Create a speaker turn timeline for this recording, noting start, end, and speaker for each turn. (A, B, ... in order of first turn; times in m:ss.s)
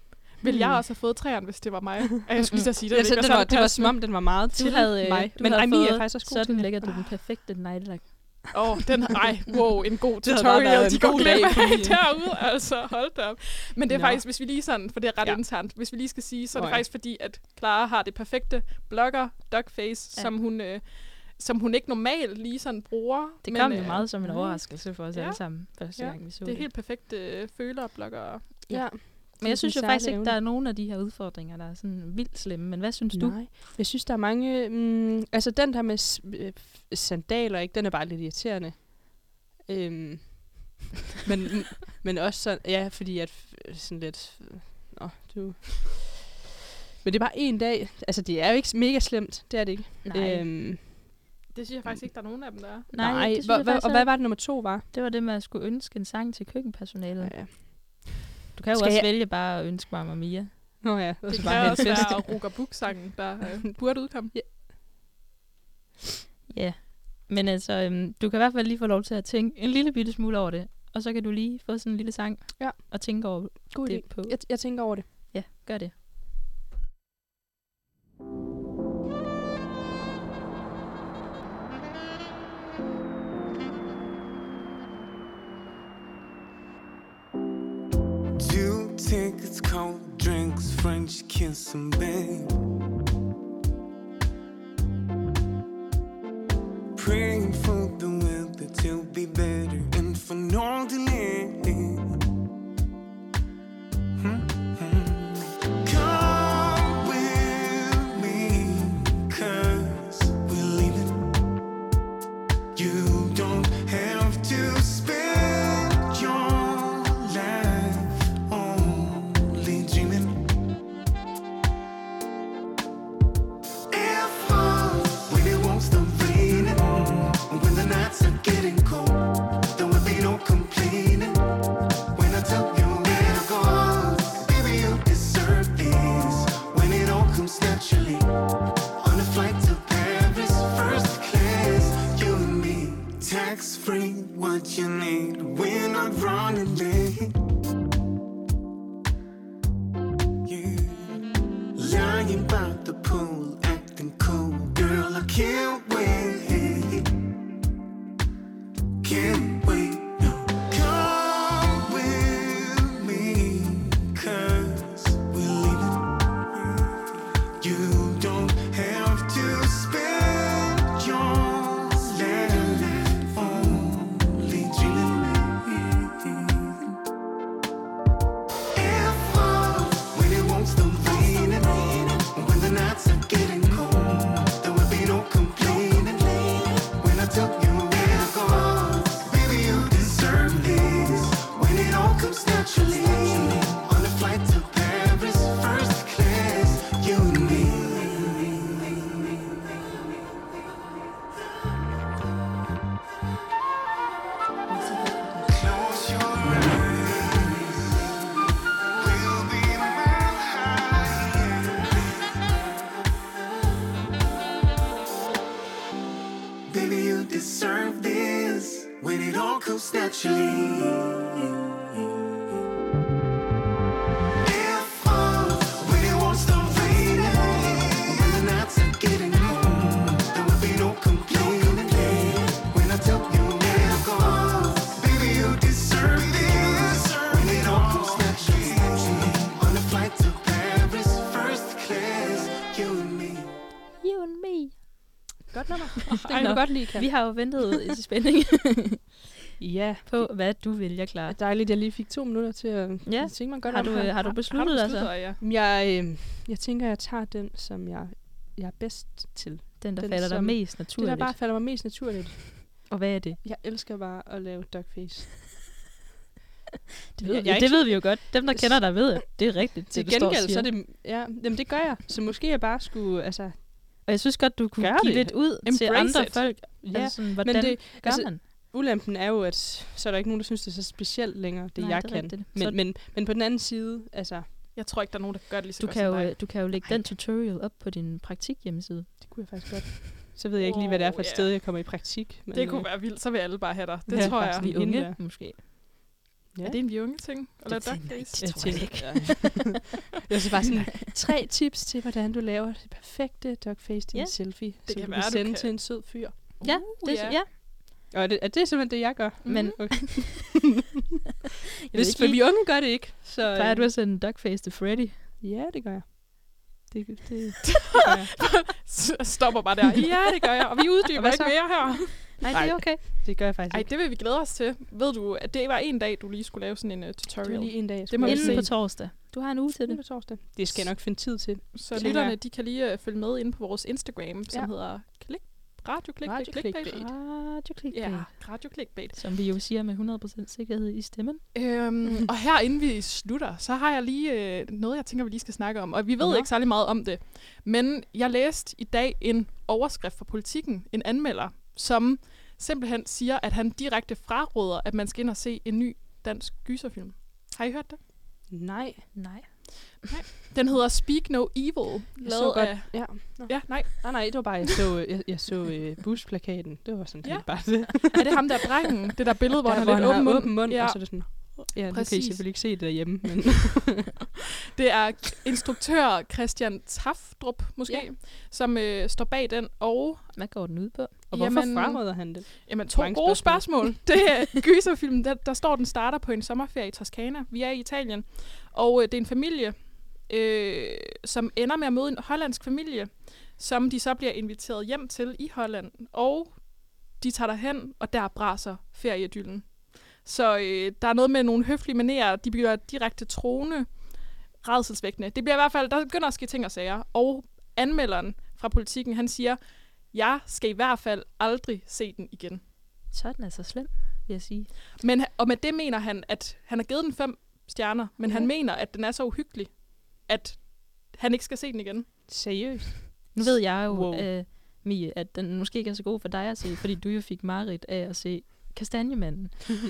0:00.4-0:04.3 A
0:00.4-0:00.8 B
0:02.9-0:06.9 B
0:04.5-0:08.5 C
0:08.5-0:24.1 A
0:10.2-0:12.2 B
0:13.9-0:14.2 B
0:16.5-0:16.8 B
0:23.4-0:26.7 C
0:24.0-0:24.8 B
0:25.1-0:25.6 A
0:26.2-0:28.7 A
0:28.7-0:33.4 C
0:28.7-0:30.4 B
0:33.1-0:46.2 B
0:47.0-0:51.1 B
0:50.0-0:50.5 C
0:51.5-0:52.9 A
0:52.9-0:54.9 B
0:52.9-0:57.8 C
0:57.2-0:58.1 B
0:58.6-1:02.2 C
0:58.7-0:59.1 B
1:00.8-1:02.5 B
1:01.3-1:04.3 A
1:04.2-1:04.5 B
1:06.5-1:15.9 C
1:12.6-1:15.0 B
1:28.4-1:32.6 D
1:36.9-1:42.1 D
1:44.2-1:51.3 D
1:52.7-2:00.5 D
2:03.9-2:11.5 D
2:12.1-2:18.3 D
2:19.0-2:27.4 D
2:30.4-2:31.2 D
2:31.8-2:37.1 D
2:39.0-2:46.9 D
2:47.6-2:57.0 D
2:58.7-3:19.0 D
3:24.7-3:25.5 C
3:25.5-3:28.1 D
3:29.0-3:32.0 D
3:36.7-3:41.5 D
3:44.4-4:03.6 D
4:04.0-4:05.2 C
4:05.5-4:07.4 B
4:06.0-4:06.6 A
4:06.1-4:09.1 C
4:09.6-4:10.6 B
4:10.0-4:11.4 C
4:11.3-4:14.2 B
4:13.0-4:15.1 C
4:13.8-4:15.4 A
4:15.4-4:22.9 B
4:19.8-4:21.4 C
4:22.9-4:23.4 C
4:23.4-4:25.5 B
4:27.2-4:30.7 C
4:27.2-4:34.0 B
4:34.0-4:38.4 C
4:34.8-4:35.6 B
4:35.6-4:36.6 A
4:36.8-4:44.6 B
4:41.8-4:42.8 C
4:44.7-4:46.5 A
4:45.8-4:49.5 C
4:46.8-4:47.1 B
4:49.2-4:52.9 B
4:50.6-4:55.0 A
4:54.1-4:55.6 B
4:54.1-4:55.6 C
4:56.5-4:57.3 B
4:56.6-4:59.1 A
4:57.6-4:59.6 C
4:58.4-5:06.8 B
5:04.1-5:04.4 C
5:04.8-5:07.4 A
5:06.6-5:07.5 C
5:08.1-5:10.7 B
5:09.4-5:10.4 C
5:11.9-5:13.9 B
5:11.9-5:15.2 C
5:15.4-5:18.3 B
5:17.6-5:22.4 A
5:21.1-5:23.9 B
5:22.4-5:23.4 C
5:23.7-5:28.8 A
5:27.4-5:32.4 B
5:28.2-5:30.8 C
5:31.7-5:37.1 A
5:36.2-5:37.1 B
5:36.9-5:41.4 C
5:37.9-5:39.2 A
5:41.5-5:58.0 A
5:46.2-5:46.5 B
5:58.5-5:59.4 B
5:59.1-6:00.1 C
6:00.0-6:04.6 A
6:02.2-6:08.6 B
6:07.2-6:12.6 A
6:09.6-6:14.1 B
6:14.7-6:20.4 A
6:20.3-6:21.2 C
6:21.3-6:52.6 A
6:21.3-6:24.1 B
6:53.1-6:54.7 C
6:55.0-7:02.2 A
7:02.3-7:04.3 B
7:03.3-7:09.8 C